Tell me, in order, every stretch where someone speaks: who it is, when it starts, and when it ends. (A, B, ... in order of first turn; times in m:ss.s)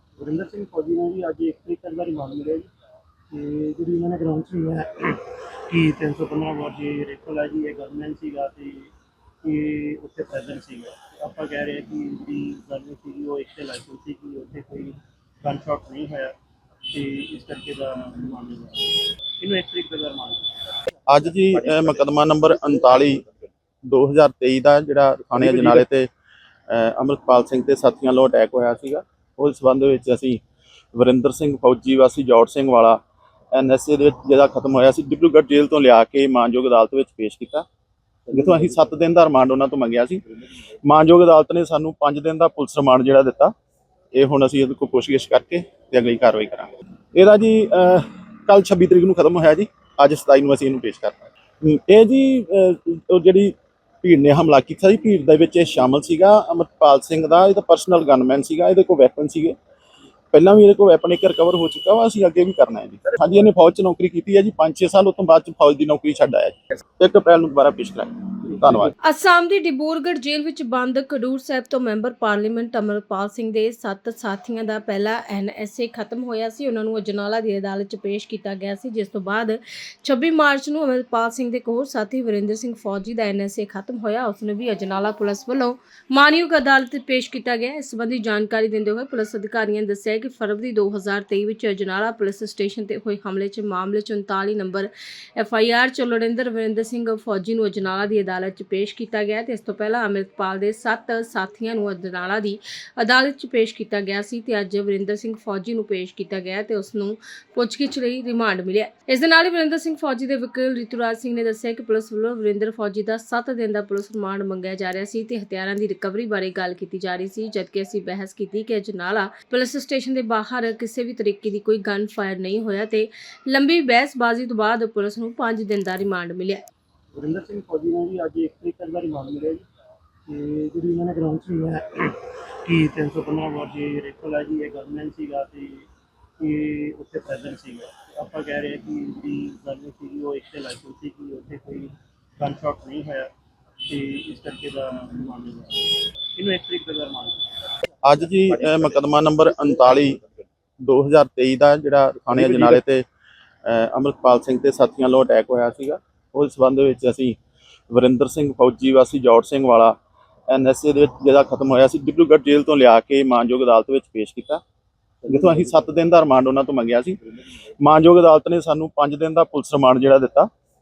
0:00.2-0:02.7 A
0:03.3-0:08.9 A
0:09.4-0:16.3 A
0:16.9-0:20.5 A
0:21.1-0:23.2 B
0:23.8-0:26.1 B
0:25.4-0:25.8 A
0:26.7-0:30.4 B
0:30.9-0:33.0 B
0:33.5-0:37.6 B
0:38.3-0:40.2 B
0:40.8-0:43.5 B
0:44.1-0:59.6 B
1:00.3-1:08.9 B
1:09.0-2:06.6 C
2:07.1-2:09.6 A
2:10.2-2:15.9 A
2:16.4-2:23.3 A
2:23.8-2:27.5 A
2:28.0-2:30.2 B
2:30.8-2:33.0 B
2:33.6-2:37.4 B
2:37.9-2:40.0 B
2:40.5-2:44.6 B
2:45.2-2:47.2 B
2:47.8-2:50.5 B